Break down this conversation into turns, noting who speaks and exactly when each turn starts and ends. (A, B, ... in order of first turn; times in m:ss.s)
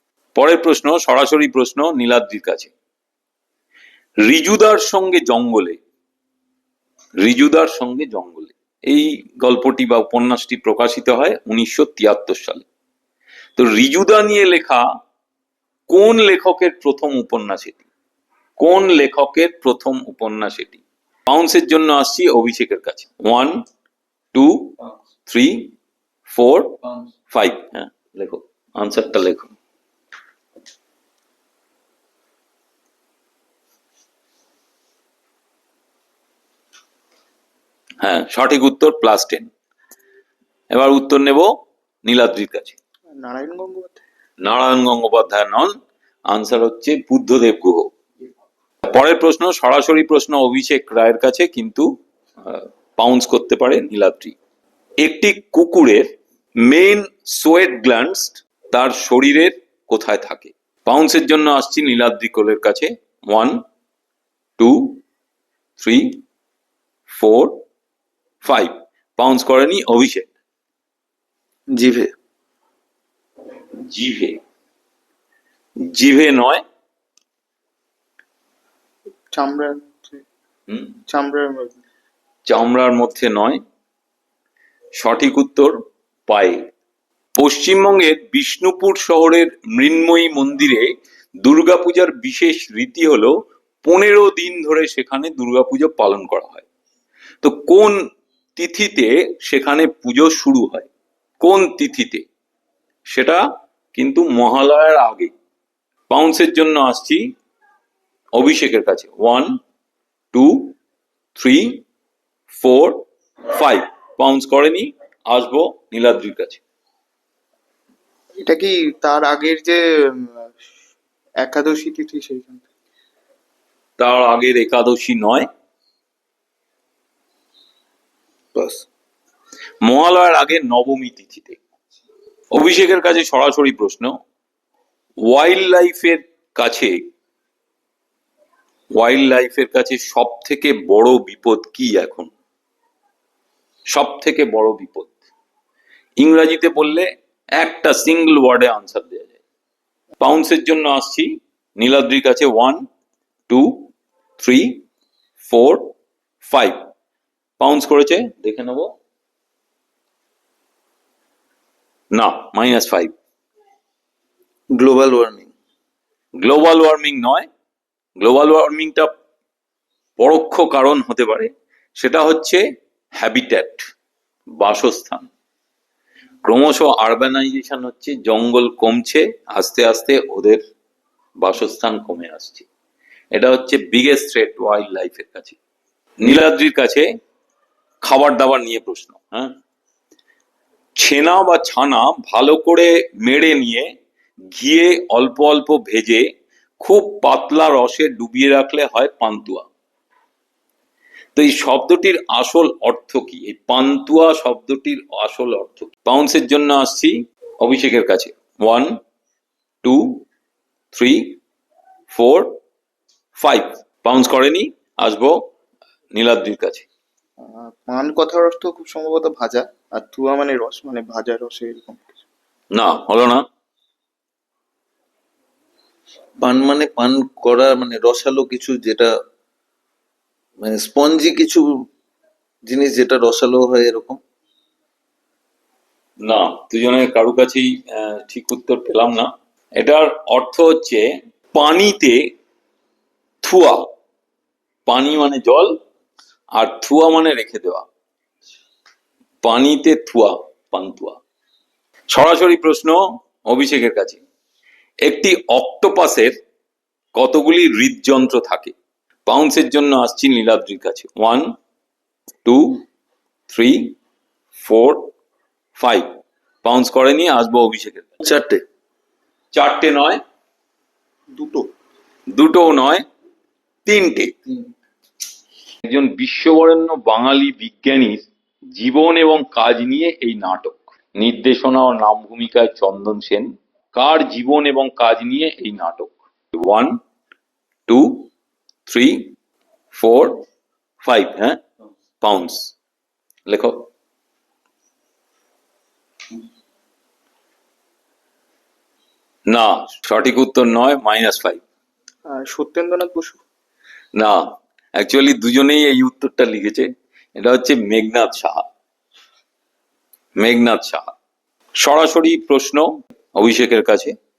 0:00.4-0:02.7 A
0:04.2-0:05.8 A
0:07.2-0:12.6 A
0:13.6-0:14.8 A
0:15.9-0:17.8 A
0:18.6-0:23.6 A
0:24.3-0:25.7 A
0:26.3-0:26.8 A
0:27.3-0:29.5 A
0:38.0-0:39.5 A
0:40.7-0:41.5 A
0:42.0-0:42.8 A
0:43.2-0:44.0 B
0:44.4-0:45.7 A
0:46.3-0:47.9 A
0:48.8-0:51.9 A
0:52.4-0:54.4 A
0:55.0-0:56.1 A
0:56.6-1:03.6 A
1:04.6-1:05.0 A
1:05.8-1:06.2 A
1:07.1-1:07.6 A
1:08.4-1:10.3 A
1:11.8-1:12.1 C
1:13.8-1:14.4 A
1:15.8-1:16.6 A
1:19.3-1:20.2 B
1:20.7-1:20.9 A
1:21.1-1:21.8 B
1:22.4-1:23.6 A
1:24.9-1:25.8 A
1:26.3-1:26.6 A
1:27.4-1:30.9 A
1:31.4-1:36.6 A
1:37.4-1:38.0 A
1:38.6-1:40.9 A
1:41.4-1:42.2 A
1:43.1-1:43.4 A
1:43.9-1:45.3 A
1:46.1-1:47.3 A
1:48.3-1:49.6 A
1:50.3-1:50.8 A
1:51.4-1:51.8 A
1:52.5-1:56.6 A
1:58.4-2:00.5 B
2:01.4-2:02.6 B
2:04.0-2:05.5 A
2:08.5-2:08.8 C
2:09.8-2:11.6 A
2:12.5-2:14.1 A
2:15.2-2:17.0 A
2:18.9-2:22.3 A
2:23.9-2:25.2 A
2:26.2-2:29.4 A
2:30.2-2:32.8 A
2:33.5-2:34.8 A
2:35.4-2:35.9 A
2:36.4-2:36.8 A
2:37.6-2:38.9 A
2:42.1-2:43.1 A
2:44.7-2:45.5 C
2:46.4-2:47.5 A
2:48.2-2:49.1 A
2:50.2-2:52.6 A
2:53.2-2:53.8 A
2:54.6-2:55.3 A
2:56.4-3:00.6 A
3:01.4-3:02.6 A
3:03.3-3:05.6 A
3:06.2-3:07.0 A
3:08.0-3:09.5 A
3:11.0-3:13.9 A
3:14.5-3:16.2 A
3:16.8-3:19.7 A
3:21.4-3:29.0 A
3:29.8-3:30.2 A
3:30.9-3:31.4 A
3:32.1-3:32.6 A
3:33.4-3:35.4 A
3:36.1-3:36.9 A
3:37.4-3:42.2 B
3:42.7-3:43.4 A
3:46.4-3:49.1 C
3:50.6-3:51.6 C
3:52.7-3:54.2 C
3:56.2-4:02.2 A
4:03.4-4:03.9 A
4:04.9-4:05.8 A
4:06.5-4:07.9 A
4:09.4-4:11.2 A
4:12.1-4:14.2 A
4:15.0-4:16.3 A
4:17.1-4:18.8 A
4:19.3-4:21.5 A
4:22.4-4:22.8 A
4:23.5-4:24.0 A
4:24.6-4:25.1 A
4:25.8-4:26.1 A
4:26.6-4:28.1 A
4:28.2-4:28.6 C
4:29.5-4:30.2 A
4:31.3-4:31.7 B
4:32.3-4:33.0 A
4:33.8-4:34.4 A
4:35.8-4:47.0 A
4:47.9-4:48.3 A
4:48.9-4:49.3 A
4:49.9-4:50.4 A
4:51.0-4:51.6 A
4:52.2-4:52.7 A
4:53.4-4:53.9 A
4:59.5-5:01.6 A
5:02.3-5:03.4 B
5:04.1-5:04.4 A
5:04.9-5:08.6 A
5:10.4-5:11.1 A
5:11.8-5:14.1 A